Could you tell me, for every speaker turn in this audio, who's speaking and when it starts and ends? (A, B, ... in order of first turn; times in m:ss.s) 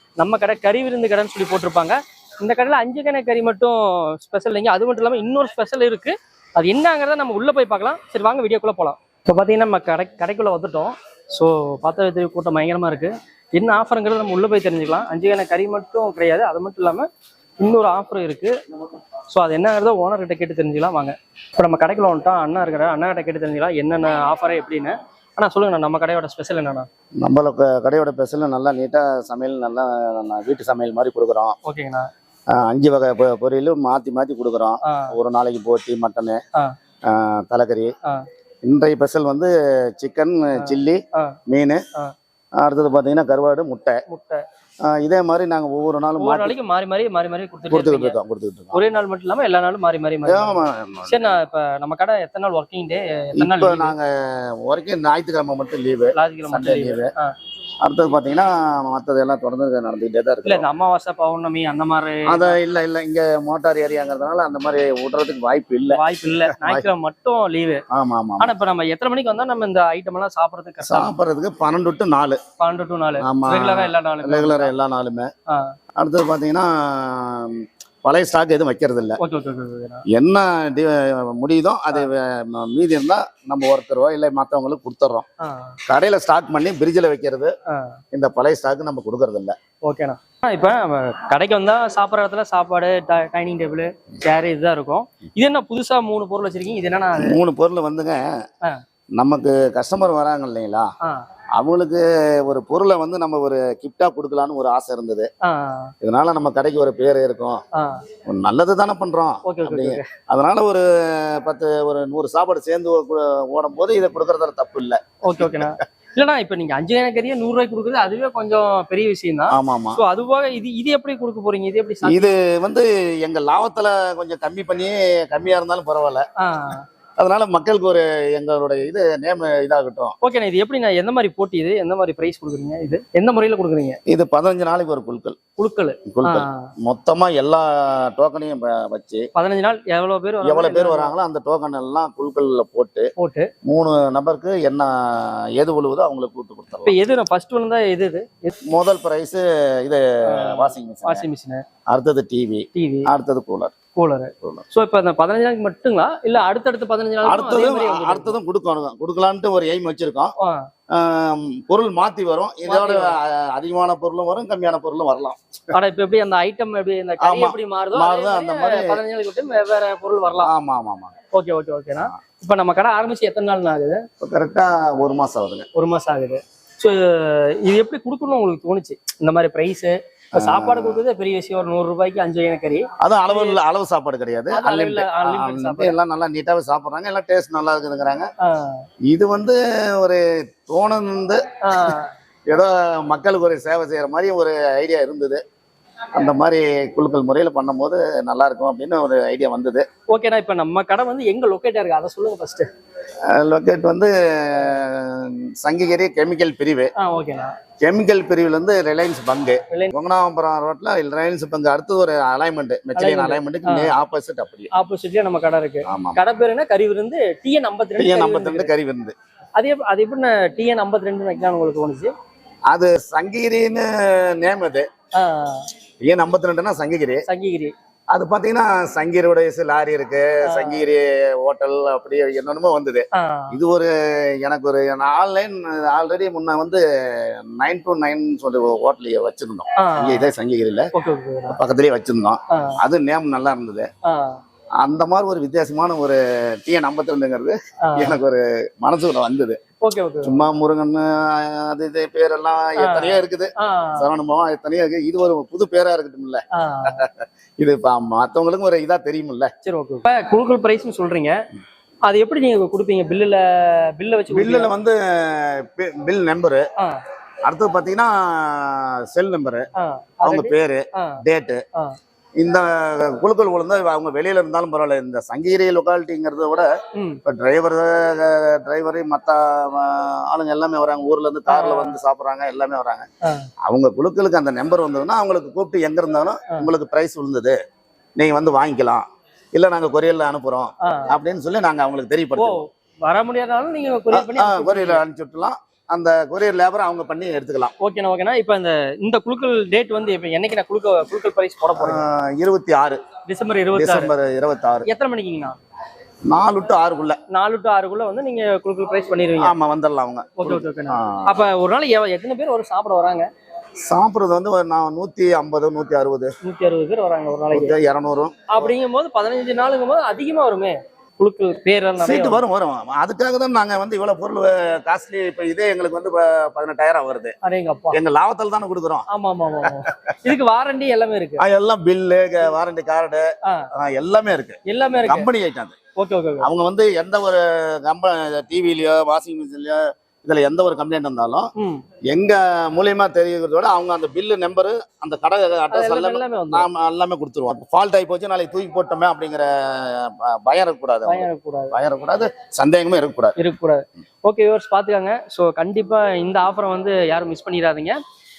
0:00.2-0:17.1 A
0:17.6-0:18.5 A
0:19.3-0:26.9 A
0:27.2-0:31.6 B
0:31.6-0:32.1 A
0:32.5-0:36.4 B
0:34.8-0:35.1 A
0:37.1-0:37.9 B
0:38.6-0:41.8 B
0:40.6-0:41.4 A
0:42.6-0:44.0 B
0:44.1-0:44.4 A
0:44.8-0:46.6 B
0:46.2-0:48.2 A
0:47.7-0:48.8 B
0:48.7-0:53.9 A
0:50.3-0:51.4 B
0:53.4-0:57.1 B
0:56.1-0:57.3 A
0:57.8-1:00.6 B
1:00.4-1:02.6 A
1:02.3-1:06.8 B
1:05.9-1:07.8 A
1:07.9-1:08.5 B
1:08.4-1:11.1 A
1:10.8-1:12.4 B
1:12.6-1:14.7 A
1:13.2-1:15.3 B
1:15.5-1:15.7 A
1:16.0-1:19.2 B
1:19.2-1:20.0 A
1:20.1-1:25.2 B
1:25.4-1:25.8 A
1:25.9-1:27.5 B
1:27.7-1:28.0 A
1:28.1-1:29.5 B
1:29.8-1:37.4 A
1:37.2-1:38.2 B
1:39.2-1:40.9 B
1:41.6-1:45.3 B
1:45.4-1:45.9 A
1:46.0-1:47.6 B
1:47.7-1:48.0 A
1:48.3-1:55.7 B
1:49.4-1:50.1 A
1:55.2-2:02.3 A
1:59.5-2:00.0 B
2:02.0-2:06.2 B
2:06.4-2:06.8 A
2:07.2-2:10.1 B
2:10.2-2:14.0 A
2:14.1-2:15.4 B
2:15.6-2:16.7 A
2:16.1-2:19.2 B
2:19.3-2:21.1 A
2:20.4-2:23.1 B
2:23.2-2:23.5 A
2:23.6-2:26.9 B
2:26.8-2:28.5 A
2:28.7-2:31.2 B
2:30.3-2:31.6 A
2:31.9-2:33.7 B
2:32.7-2:33.1 A
2:33.9-2:38.4 A
2:37.2-2:40.3 B
2:40.4-2:40.7 A
2:40.9-2:45.4 B
2:42.6-2:43.1 A
2:45.7-2:50.5 A
2:47.2-2:49.0 B
2:50.4-2:51.1 B
2:51.3-2:54.0 A
2:54.2-2:55.7 B
2:55.8-3:03.6 A
3:00.4-3:01.0 B
3:03.0-3:08.3 B
3:04.5-3:06.0 A
3:08.4-3:08.8 A
3:09.1-3:15.4 B
3:11.6-3:12.1 A
3:16.1-3:19.8 B
3:20.1-3:22.7 A
3:23.3-3:26.9 B
3:27.0-3:27.5 A
3:27.8-3:34.7 B
3:33.0-3:33.9 A
3:34.7-3:38.7 A
3:35.9-3:36.2 B
3:38.0-3:39.1 B
3:39.6-3:42.1 A
3:42.7-3:44.8 B
3:45.2-3:45.7 A
3:46.0-3:47.2 B
3:47.3-3:47.7 A
3:48.1-4:00.9 B
3:50.5-3:50.8 A
3:53.1-3:53.6 A
3:59.8-4:00.3 A
4:00.9-4:01.6 A
4:01.5-4:03.9 B
4:02.5-4:02.8 A
4:04.0-4:04.4 A
4:04.8-4:09.6 B
4:07.8-4:08.2 A
4:09.8-4:10.4 A
4:10.2-4:19.5 B
4:12.8-4:14.0 A
4:16.5-4:17.0 A
4:19.6-4:21.4 A
4:22.1-4:24.7 A
4:24.3-4:26.6 B
4:27.4-4:29.7 B
4:29.8-4:31.2 A
4:30.2-4:31.6 B
4:32.4-4:36.7 B
4:36.9-4:37.2 A
4:37.2-4:43.0 B
4:41.5-4:42.0 A
4:43.7-4:47.6 B
4:48.2-4:52.6 B
4:50.8-4:51.1 A
4:52.4-4:55.0 A
4:54.1-4:57.7 B
4:57.8-5:02.0 A
5:01.8-5:03.0 B
5:03.3-5:04.1 A
5:03.7-5:04.9 B
5:04.9-5:05.6 A
5:06.3-5:07.2 B
5:07.3-5:09.5 A
5:09.4-5:11.3 B
5:10.4-5:13.3 A
5:13.8-5:16.3 B
5:16.4-5:17.8 A
5:17.5-5:18.7 B
5:18.5-5:22.4 A
5:22.0-5:27.3 B
5:27.4-5:28.0 A
5:27.9-5:29.0 B
5:29.1-5:31.4 A
5:29.6-5:29.9 B
5:31.4-5:35.7 B
5:34.6-5:35.3 A
5:36.0-5:36.5 A
5:36.4-5:41.5 B
5:41.6-5:41.8 A
5:42.1-5:53.3 B
5:45.7-5:46.7 A
5:51.0-5:51.7 A
5:53.4-5:58.0 A